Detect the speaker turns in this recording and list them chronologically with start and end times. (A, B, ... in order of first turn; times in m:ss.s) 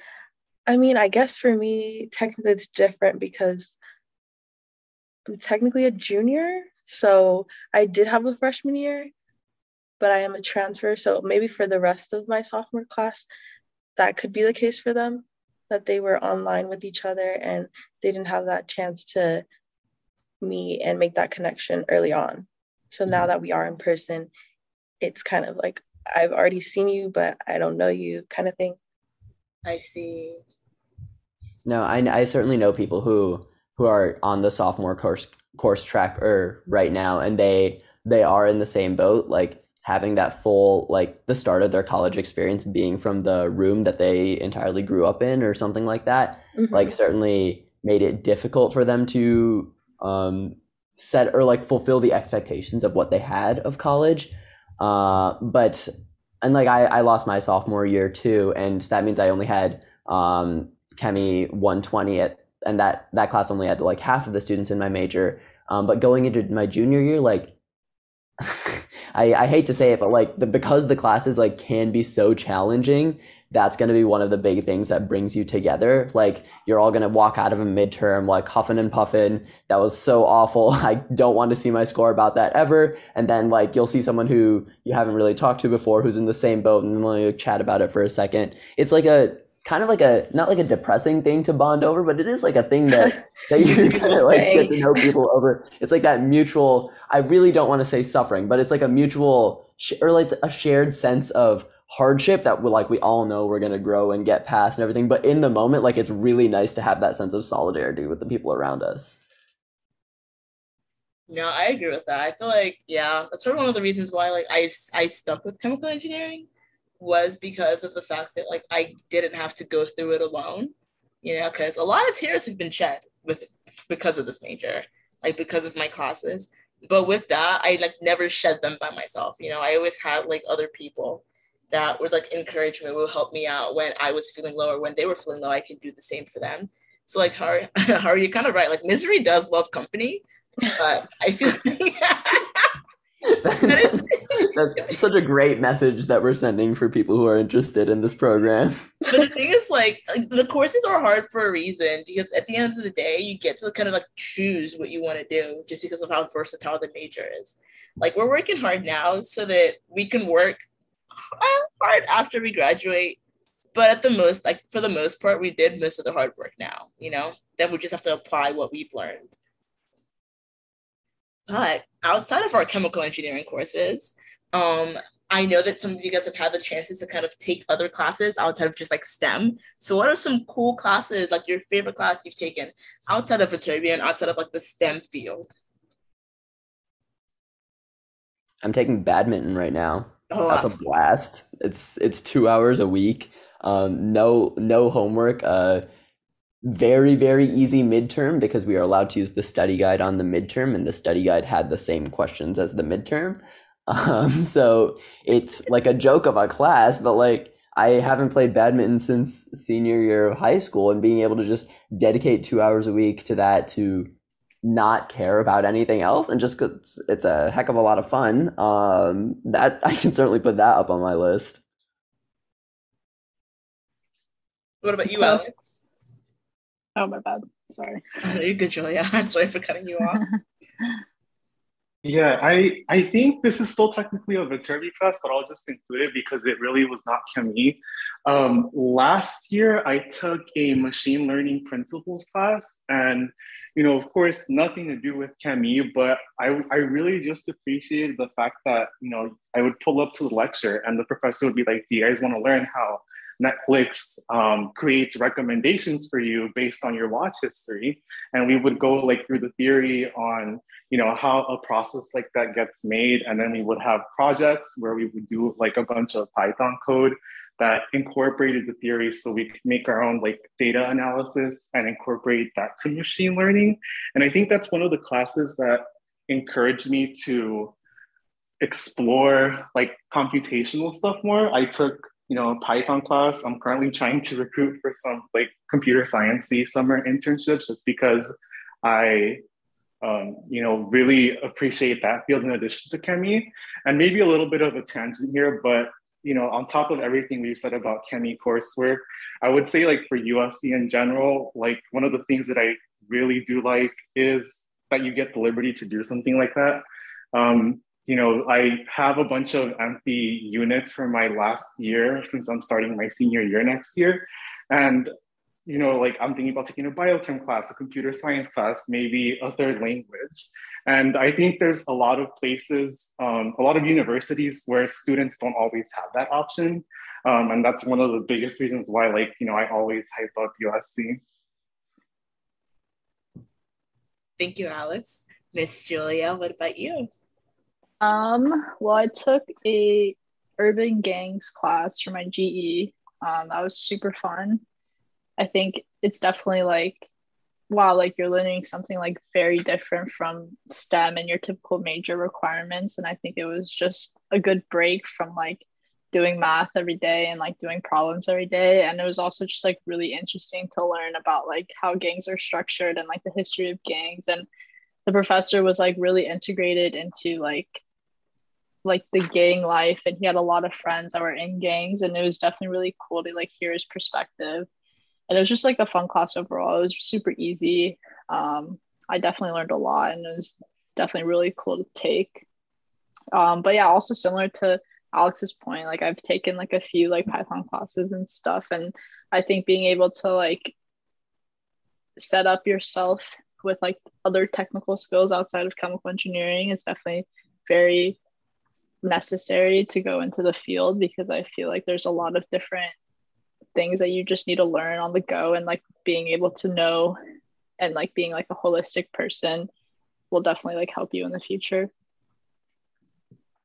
0:00.7-0:03.8 A
0:05.3-0:09.1 A
0:10.0-0:13.3 A
0:14.0-0:19.4 A
0:20.4-0:24.3 A
0:25.0-0:28.8 A
0:29.6-0:30.4 B
0:31.6-0:55.9 C
0:46.6-0:46.9 A
0:56.4-1:07.6 C
1:08.4-1:49.2 C
1:32.9-1:35.1 A
1:51.3-1:56.5 B
1:57.0-2:22.7 B
2:23.3-2:28.9 C
2:23.7-2:24.5 B
2:29.1-2:40.6 B
2:41.4-2:43.2 B
2:43.7-2:49.3 B
2:51.5-3:05.5 B
3:08.6-3:15.9 C
3:10.3-3:10.8 B
3:16.6-3:34.1 C
3:34.6-3:41.6 C
3:44.8-3:45.8 B
3:45.1-3:45.4 D
3:47.0-3:48.0 D
3:48.2-3:50.2 B
3:50.1-3:50.9 D
3:52.0-4:37.8 E
4:38.6-4:48.3 E
4:48.8-4:49.4 E
4:50.0-5:15.1 E
5:15.7-5:31.2 E
5:34.4-5:37.1 B
5:38.0-5:44.6 D
5:45.4-5:47.0 D
5:47.7-6:04.5 D
6:05.1-6:07.8 D
6:08.8-6:14.7 D
6:15.3-6:22.4 D
6:23.3-6:30.7 D
6:32.2-6:38.2 D
6:39.0-6:42.9 D
6:43.8-6:47.2 D
6:47.8-6:49.7 D
6:50.3-6:51.9 D